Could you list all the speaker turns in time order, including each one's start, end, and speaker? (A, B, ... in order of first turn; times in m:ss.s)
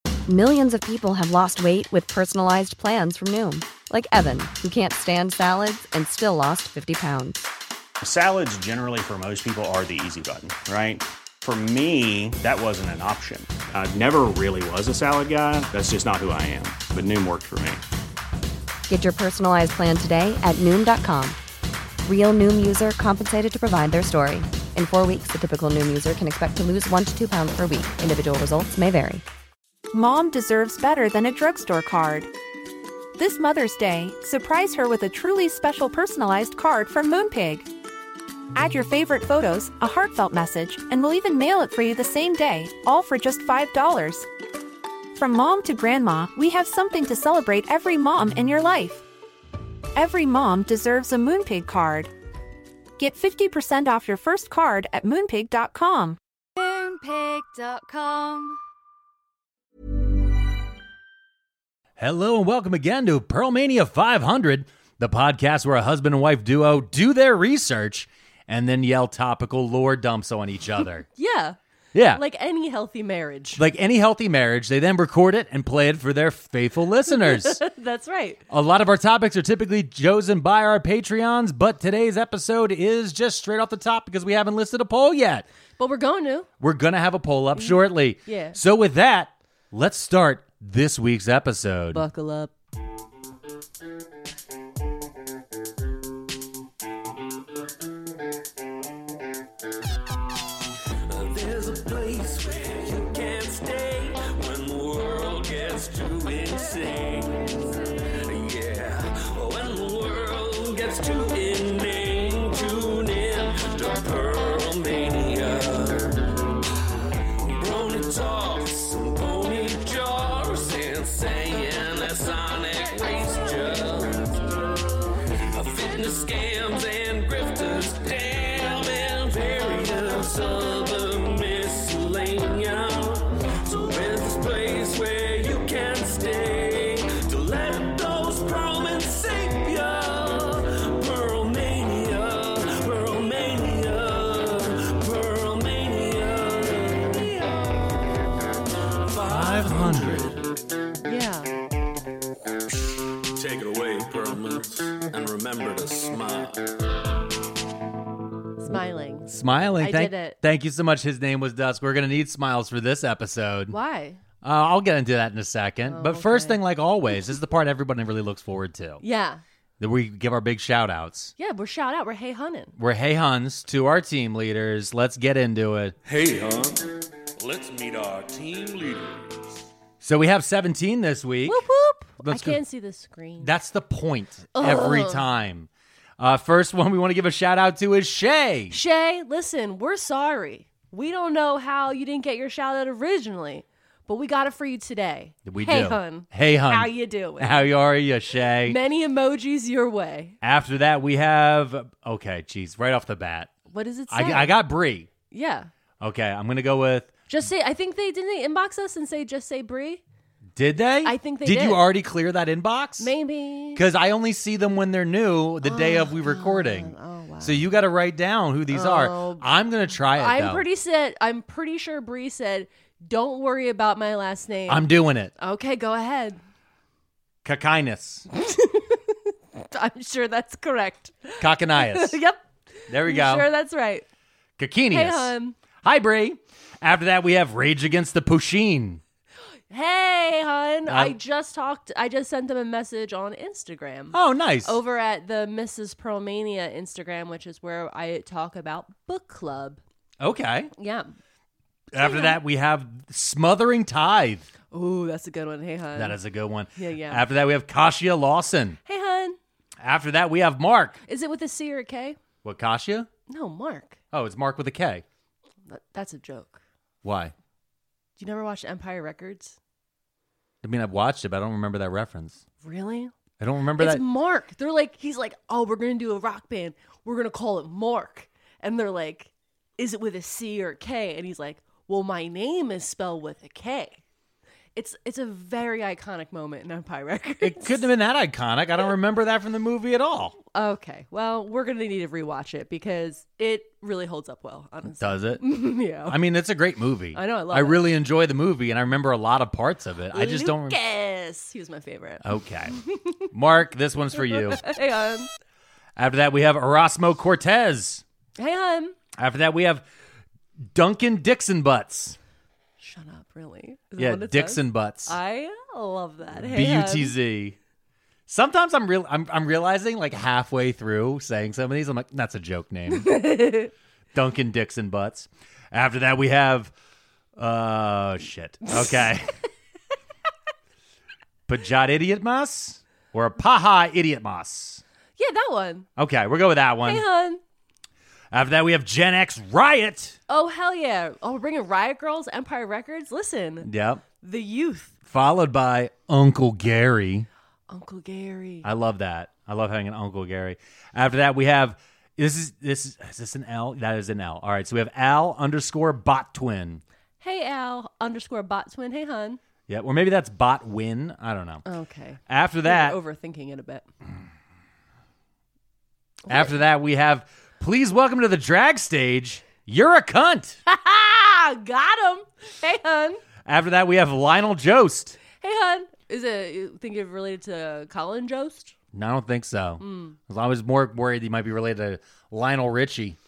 0:00.3-0:07.5 A
0:08.0-0:17.8 B
0:18.9-0:21.4 A
0:22.0-0:29.2 A
0:29.9-0:32.3 C
0:33.2-0:37.7 C
0:38.6-0:44.3 C
0:45.1-0:49.0 C
0:50.0-0:52.1 C
0:53.0-0:56.2 C
0:56.6-0:58.6 D
1:02.0-1:11.1 E
1:11.2-1:11.6 F
1:11.9-1:12.2 E
1:12.1-1:13.6 F
1:13.6-1:17.6 E
1:17.1-1:18.4 F
1:18.5-1:25.5 E
1:25.8-1:26.5 F
1:26.6-1:32.0 E
1:27.6-1:28.6 F
1:31.9-1:32.5 F
1:41.1-1:56.4 G
1:57.5-2:04.6 G
2:05.5-2:27.7 G
2:29.0-2:30.5 G
2:29.3-2:30.4 E
2:31.0-2:31.5 F
2:33.3-2:36.8 G
2:38.6-2:40.4 F
2:39.3-2:43.8 E
2:43.7-2:44.2 F
2:44.4-2:49.0 E
2:45.9-2:46.6 F
2:49.0-2:49.4 F
2:49.8-2:51.3 E
2:51.4-2:52.8 F
2:52.8-2:56.0 E
2:56.0-2:59.5 G
3:00.0-3:01.6 E
3:01.5-3:03.5 F
3:02.2-3:02.6 E
3:03.4-3:08.8 E
3:04.6-3:05.2 F
3:08.7-3:17.7 F
3:15.5-3:18.8 E
3:18.6-3:20.4 F
3:20.4-3:23.5 E
3:23.7-3:24.6 F
3:24.1-3:25.1 E
3:25.3-3:25.7 F
3:26.0-3:27.1 E
3:27.3-3:30.0 F
3:30.6-3:33.1 E
3:31.0-3:31.9 F
3:33.0-3:33.8 F
3:33.7-3:40.7 E
3:35.6-3:37.7 F
3:38.7-3:46.4 F
3:44.7-3:45.3 E
3:47.4-3:48.3 E
3:48.3-3:54.0 F
3:51.4-3:52.2 E
3:52.9-3:53.5 E
3:54.6-3:59.0 E
3:54.9-3:55.6 F
3:59.7-4:09.8 F
4:00.9-4:01.2 E
4:04.1-4:04.8 E
4:10.2-4:10.7 E
4:10.8-4:11.1 F
4:11.9-4:14.5 E
4:12.0-4:12.4 F
4:14.7-4:16.2 F
4:16.0-4:18.8 E
4:16.8-4:17.3 F
4:18.8-4:19.4 F
4:19.8-4:21.0 E
4:21.1-4:22.2 F
4:22.4-4:23.1 E
4:23.3-4:24.0 F
4:24.1-4:25.0 E
4:25.7-4:26.6 F
4:27.0-4:27.3 E
4:28.2-4:29.6 F
4:30.6-4:32.4 E
4:32.6-4:33.1 F
4:33.4-4:34.0 E
4:33.8-4:44.0 F
4:44.8-4:47.9 F
4:47.4-4:50.4 E
4:50.5-4:56.2 F
4:55.0-4:55.4 E
4:56.0-5:00.8 E
4:57.1-4:57.8 F
5:00.1-5:02.2 F
5:02.2-5:02.8 E
5:02.7-5:03.3 F
5:03.3-5:04.7 E
5:04.2-5:05.3 F
5:06.0-5:08.0 E
5:08.4-5:09.0 F
5:09.2-5:09.9 E
5:10.7-5:12.2 E
5:12.8-5:17.1 F
5:14.0-5:15.2 E
5:16.3-5:17.6 E
5:18.3-5:23.1 E
5:22.9-5:23.7 F
5:24.1-5:26.7 E
5:27.4-5:29.4 E
5:31.5-5:34.8 E
5:35.2-5:35.9 F
5:36.0-5:37.1 E
5:36.8-5:37.4 F
5:38.3-5:40.2 E
5:40.3-5:43.7 F
5:43.6-5:44.0 E
5:44.2-5:44.9 F
5:45.1-5:47.3 E
5:47.7-5:48.7 F
5:48.6-5:56.8 E
5:57.2-5:59.4 F
5:59.7-6:01.6 E
6:01.6-6:03.8 F
6:02.3-6:03.0 E
6:06.3-6:06.5 F
6:06.3-6:10.6 E
6:10.7-6:13.2 F
6:13.4-6:15.2 E
6:15.4-6:18.8 F
6:18.9-6:23.2 E
6:19.8-6:20.2 F